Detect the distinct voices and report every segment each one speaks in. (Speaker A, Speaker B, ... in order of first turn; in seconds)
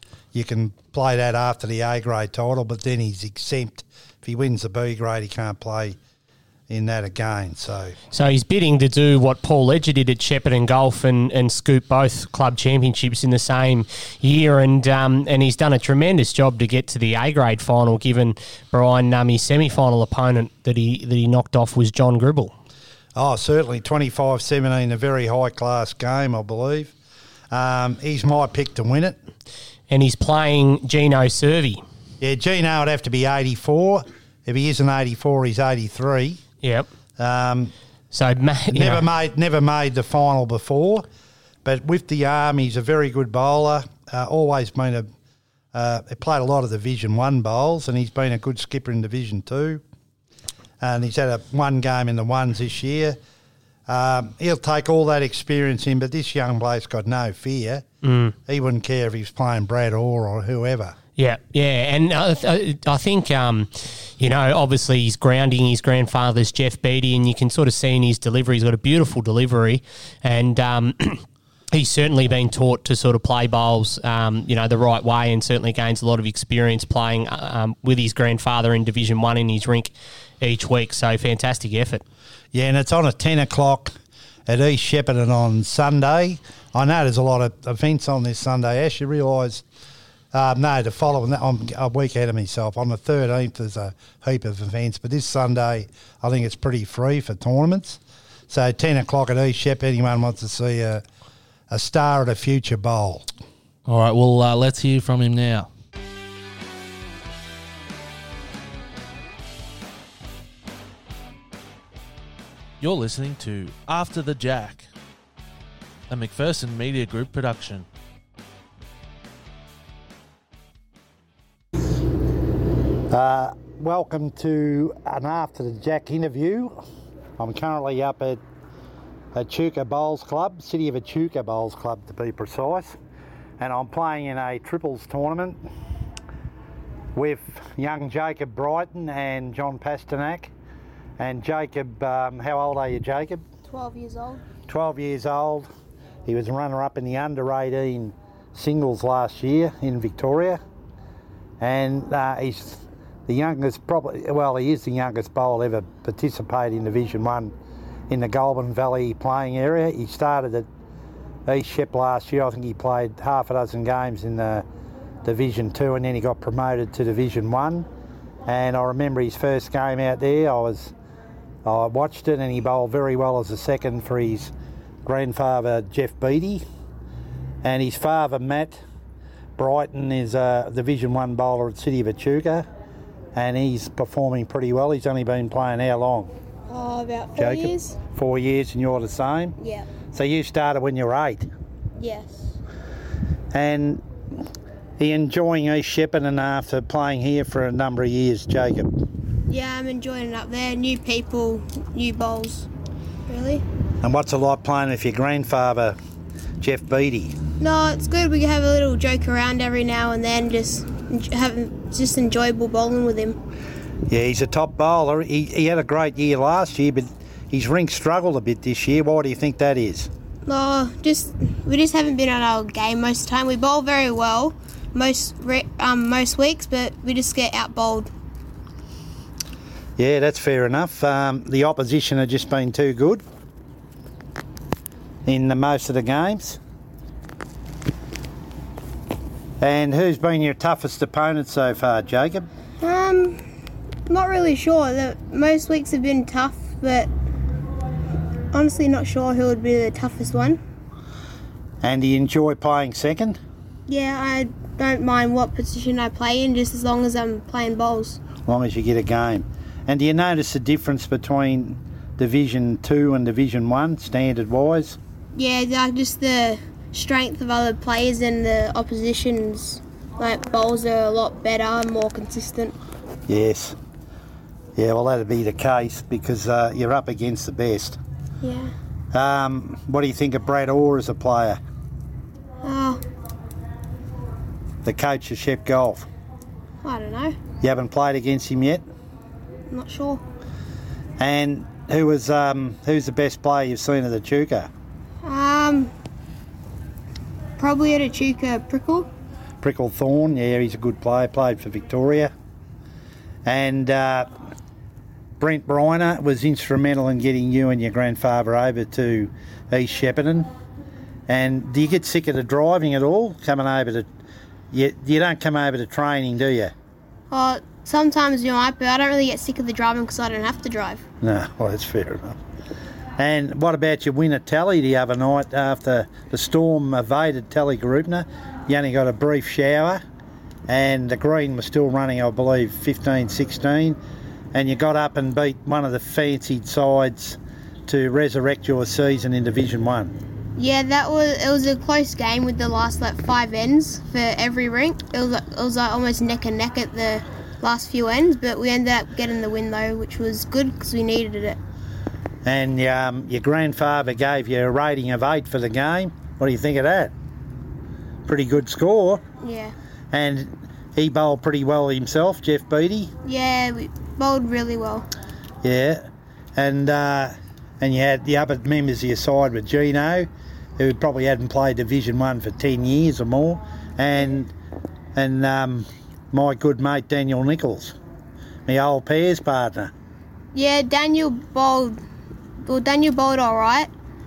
Speaker A: 0.3-6.0, 6.7-8.0, 23.2-26.9, 27.5-29.2, 32.2-36.4, 37.2-37.7, 38.7-41.1, 41.6-45.1, 45.7-49.8, 50.8-53.2, 53.9-57.8, 58.5-61.0, 82.5-83.9, 84.5-89.7, 90.3-101.0, 101.7-103.3, 123.1-126.8, 127.4-128.4, 129.3-133.0, 133.6-135.6, 137.2-140.5, 141.2-143.4, 144.7-145.7, 146.3-150.6, 151.6-157.5, 158.1-160.7, 161.5-164.7, 165.2-167.9, 168.5-170.9, 171.7-174.5, 175.1-176.6, 177.6-178.8, 179.6-182.7, 183.3-186.3, 187.4-189.6, 190.1-191.5, 193.5-194.4, 195.0-198.9, 204.0-206.0, 206.6-207.4, 214.1-220.1, 230.0-233.2, 235.3-236.6, 239.6-242.5, 251.8-253.4, 258.4-265.0, 273.3-273.8, 274.8-278.0, 279.1-281.6, 284.8-286.1, 287.6-288.8, 291.2-294.7, 299.6-302.3, 303.5-304.3, 305.4-310.5, 311.3-314.1, 314.7-316.7, 321.2-322.4, 323.2-330.0, 330.7-334.0, 334.5-340.1, 352.4-357.1, 358.3-359.2, 360.1-363.1, 365.6-374.5, 375.1-378.0, 378.7-379.9
Speaker B: 8.1-22.5, 29.9-31.8, 36.6-36.9, 38.1-39.0, 58.0-58.4, 61.2-82.0
Speaker C: 103.9-105.7, 112.8-114.9, 116.1-117.9
Speaker D: 143.7-144.4, 186.7-188.0, 189.6-189.9, 192.0-192.6, 199.5-202.7, 203.3-203.7, 207.6-213.4, 220.5-228.1, 242.8-243.4, 244.1-247.1, 248.5-250.6, 253.9-258.2, 265.4-272.8, 278.4-278.7, 282.6-283.0, 286.8-287.4, 289.7-290.2, 295.2-295.9, 297.6-299.1, 317.3-321.0, 340.6-351.6, 359.4-359.7, 363.2-365.1, 380.5-382.0, 382.6-383.9